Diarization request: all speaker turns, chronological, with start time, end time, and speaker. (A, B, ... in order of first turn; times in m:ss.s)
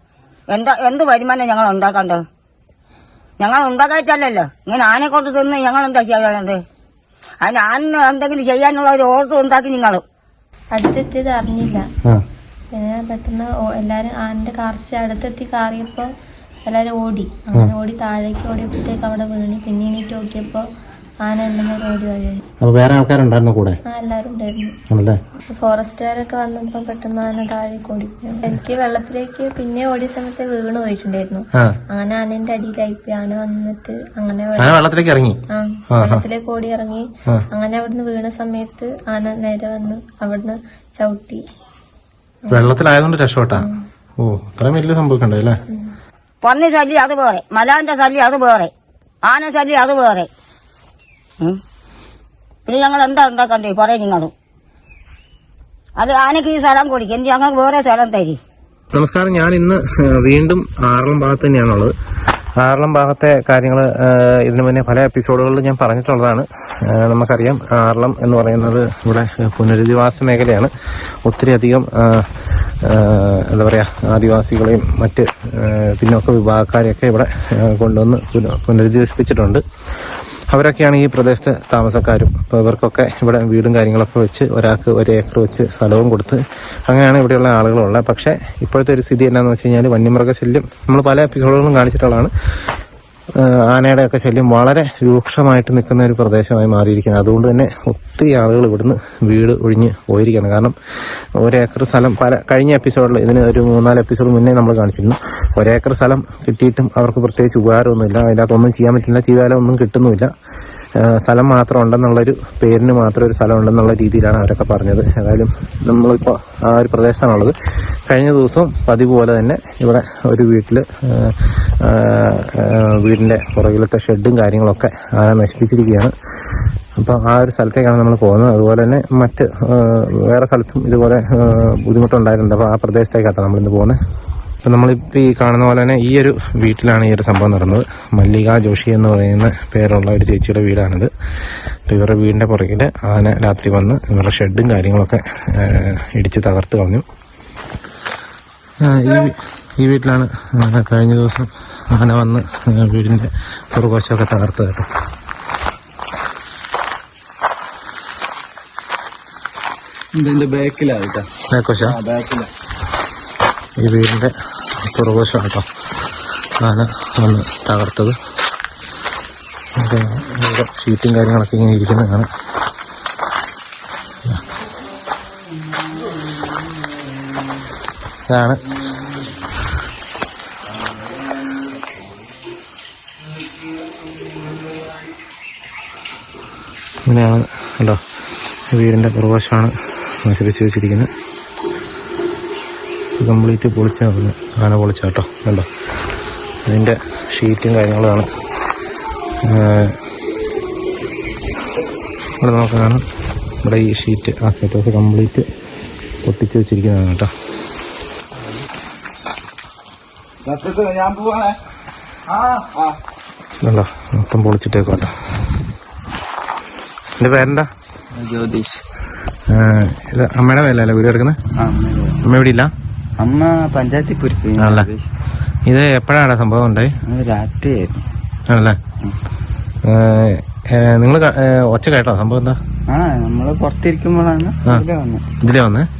0:00.5-0:02.2 A
0:03.4-0:06.6 A
0:07.4-0:10.0 A
0:10.8-0:11.9 B
0:12.8-0:16.1 B
0:16.7-0:20.6 B
0:21.2-0:22.4 B
0:22.6-0:23.8 C
0:23.9-0:24.8 B
0:24.9-0:25.2 C
0:25.5-0:34.7 B
0:34.6-0:35.4 C
0:35.5-0:41.4 B
0:35.9-0:36.2 C
0:42.5-0:43.7 C
0:44.2-0:45.6 C
0:46.4-0:48.7 A
0:49.2-0:50.3 A
0:52.7-0:54.3 A
0:56.0-0:58.4 A
0:58.9-1:01.9 C
1:02.6-1:10.7 C
1:11.2-1:32.3 C
1:33.4-1:40.8 C
1:41.4-1:50.3 C
1:51.0-1:57.6 C
1:58.1-2:14.0 C
2:14.6-2:27.0 C
2:28.8-2:34.9 C
2:40.2-2:41.3 D
2:41.5-2:42.0 C
2:41.8-2:42.5 D
2:43.8-2:45.6 C
2:46.6-2:48.2 C
2:49.8-2:52.3 C
2:58.3-2:58.6 C
3:07.1-3:08.0 C
3:08.7-3:11.1 C
3:13.2-3:15.7 C
3:16.6-3:18.3 C
3:19.4-3:20.0 C
3:22.4-3:23.0 C
3:23.6-3:25.5 C
3:26.2-3:27.3 C
3:30.4-3:31.6 D
3:32.3-3:33.0 D
3:33.6-3:35.1 C
3:37.2-3:37.7 C
3:38.1-3:38.8 D
3:39.5-3:41.4 C
3:41.6-3:42.2 D
3:42.2-3:42.7 C
3:43.2-3:45.1 D
3:44.6-3:44.9 C
3:45.7-3:46.9 C
3:47.1-3:48.0 D
3:48.5-3:48.8 C
3:49.8-3:52.6 C
3:52.9-3:55.2 D
3:55.4-3:55.9 C